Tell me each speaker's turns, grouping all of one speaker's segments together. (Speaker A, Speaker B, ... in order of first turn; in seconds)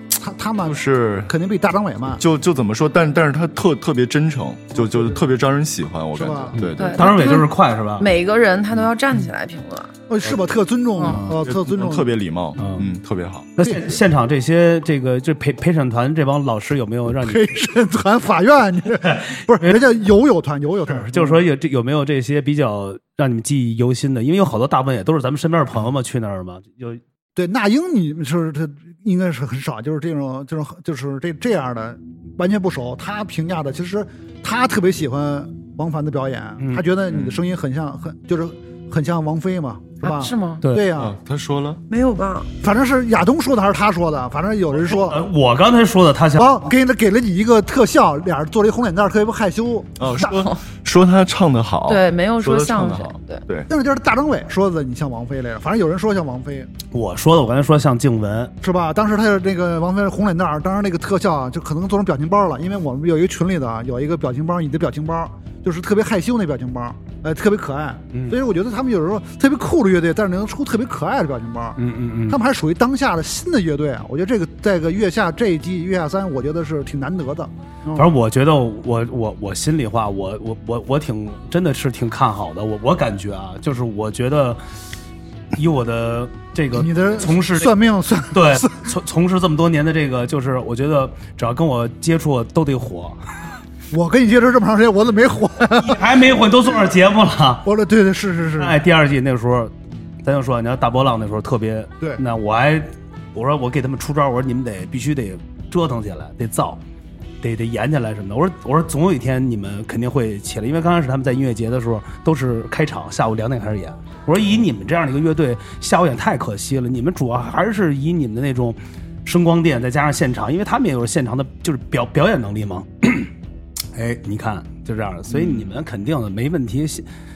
Speaker A: 0.2-2.2, 4.8-5.2, 6.1-6.6, 10.1-12.1, 17.2-21.4, 27.4-41.1, 42.6-45.2, 46.4-50.3, 53.7-56.7, 58.6-78.1, 86.7-88.9, 93.9-96.0, 97.6-98.8
Speaker B: 0.6-1.3, 2.2-7.1, 11.2-14.0, 37.1-37.4, 40.9-41.8, 50.0-53.7, 125.3-125.6
Speaker C: 6.5-8.1, 11.1-11.3, 12.6-12.9, 13.6-17.5, 19.1-19.8, 20.9-27.0, 36.6-36.8, 44.8-46.5, 56.9-58.5, 68.1-68.4, 71.8-72.4, 78.0-84.6, 85.5-87.7, 88.3-93.2, 95.8-97.7, 98.6-106.8, 107.4-123.3, 123.9-127.1
Speaker D: 6.8-9.9, 40.0-40.6, 41.9-42.5, 50.2-50.6, 51.9-53.4